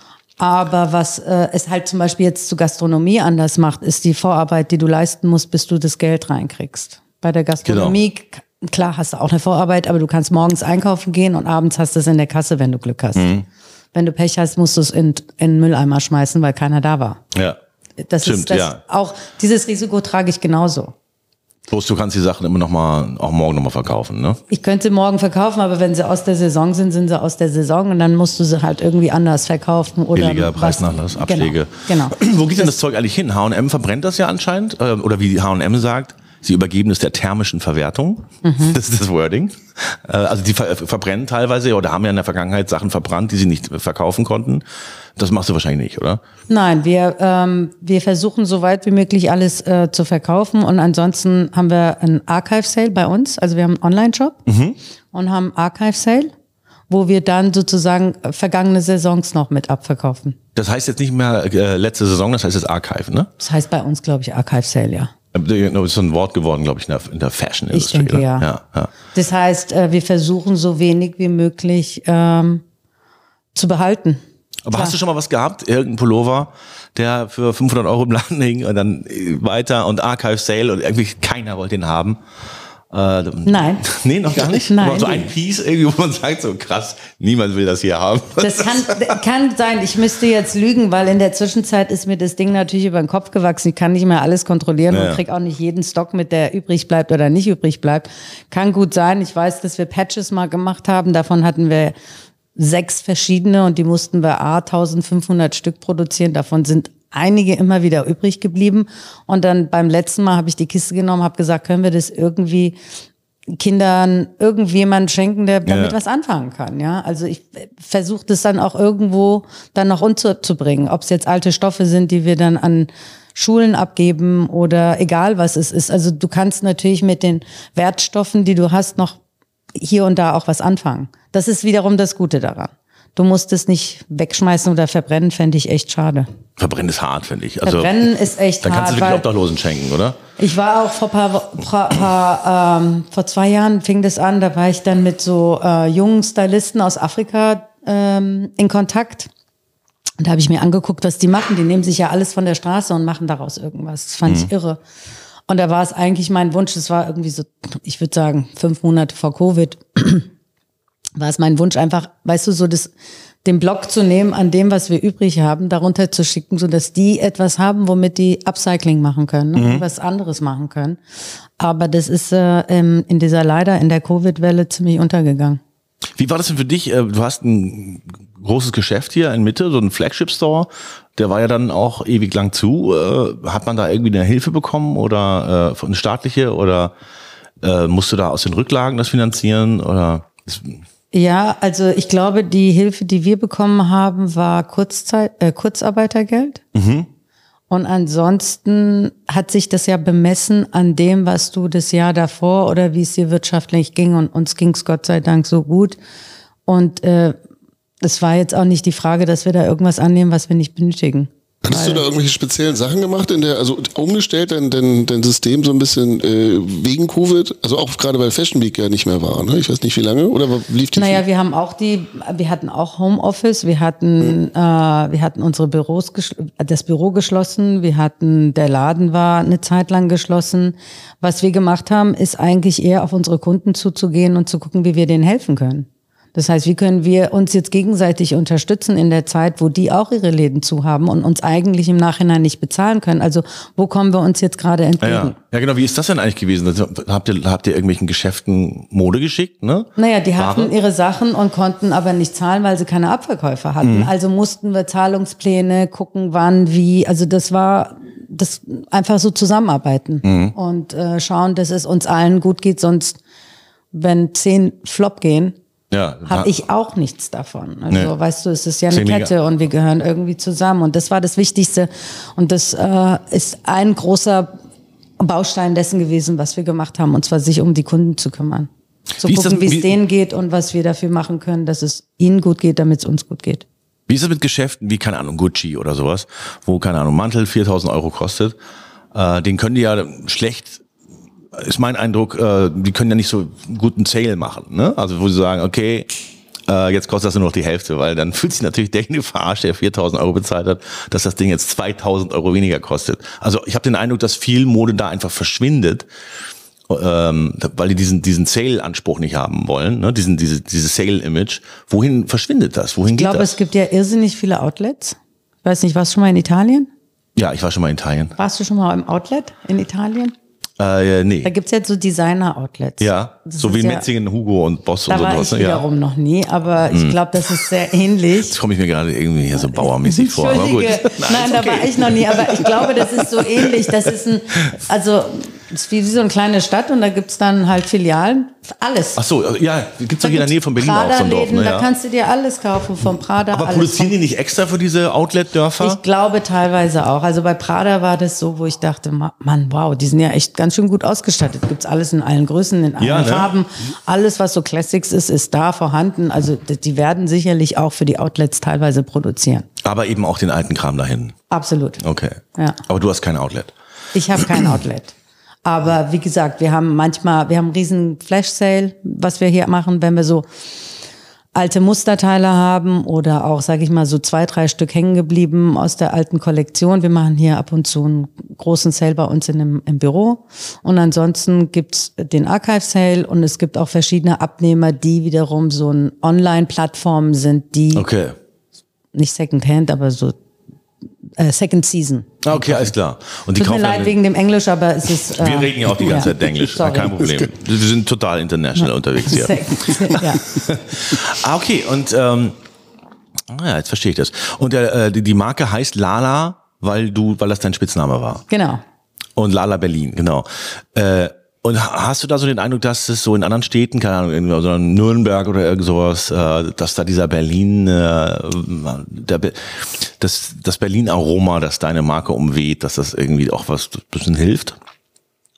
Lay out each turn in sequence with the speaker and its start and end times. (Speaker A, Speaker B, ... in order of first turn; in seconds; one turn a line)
Speaker A: 0.4-13.3
Speaker B: 7.6-8.0
Speaker B: 13.1-13.4
Speaker A: 13.9-17.2
Speaker A: 18.0-20.9
Speaker B: 18.2-18.8
Speaker B: 21.7-24.4
Speaker A: 24.5-32.7
Speaker B: 30.1-44.6
Speaker A: 38.4-38.8
Speaker B: 45.2-46.2
Speaker A: 46.5-54.4
Speaker B: 54.5-54.8
Speaker A: 55.1-56.3
Speaker A: 56.9-60.4
Speaker B: 60.5-63.3
Speaker A: 63.4-65.1
Speaker B: 65.3-68.9
Speaker A: 67.7-68.5
Speaker A: 69.1-72.6
Speaker A: 73.5-74.2
Speaker B: 74.7-82.2
Speaker B: 82.9-89.1
Speaker A: 83.4-85.3
Speaker A: 88.4-101.9
Speaker B: 94.9-95.2
Speaker A: 102.5-112.8
Speaker A: 113.5-129.2
Speaker B: 115.7-116.0
Speaker A: 129.7-136.3
Speaker B: 136.6-138.1
Speaker A: 137.6-139.2
Speaker B: 138.6-140.2
Speaker A: 140.4-149.3
Speaker A: 150.2-154.8
Speaker A: 155.5-160.3
Speaker A: 161.2-162.9
Speaker A: 163.4-171.0
Speaker B: 169.5-169.8
Speaker A: 171.6-175.6
Speaker B: 176.2-186.9
Speaker B: 187.6-190.8
Speaker A: 191.1-196.6
Speaker B: 196.7-197.1
Speaker A: 197.7-206.0
Speaker A: 206.7-207.3
Speaker A: 208.0-212.0
Speaker C: 211.6-221.2
Speaker A: 220.9-245.3
Speaker B: 245.0-250.7
Speaker A: 250.0-263.2
Speaker B: 253.8-254.1
Speaker B: 260.2-260.5
Speaker A: 263.9-265.5
Speaker B: 265.9-266.5
Speaker A: 266.2-274.5
Speaker B: 268.9-269.3
Speaker A: 275.2-278.7
Speaker A: 279.2-283.6
Speaker B: 279.2-279.9
Speaker B: 284.1-288.5
Speaker B: 289.1-290.8
Speaker B: 291.5-296.1
Speaker B: 296.7-306.1
Speaker B: 306.9-313.5
Speaker A: 313.1-316.9
Speaker B: 317.4-318.3
Speaker A: 318.4-320.3
Speaker B: 320.8-321.5
Speaker A: 321.4-324.1
Speaker B: 323.0-325.8
Speaker A: 325.1-328.6
Speaker B: 326.9-327.6
Speaker B: 328.5-333.7
Speaker A: 329.6-339.2
Speaker B: 339.2-341.9
Speaker A: 340.2-344.1
Speaker B: 343.5-346.0
Speaker A: 345.8-359.7
Speaker B: 353.0-353.5
Speaker B: 359.8-361.3
Speaker A: 361.5-362.0
Speaker B: 362.0-363.7
Speaker A: 364.1-370.4
Speaker A: 371.5-388.1
Speaker B: 387.9-388.4
Speaker A: 389.1-390.4
Speaker A: 391.4-392.9
Speaker B: 392.4-394.1
Speaker A: 393.5-397.2
Speaker B: 395.3-402.6
Speaker A: 398.8-400.5
Speaker B: 403.5-408.4
Speaker A: 408.5-408.8
Speaker B: 409.4-424.8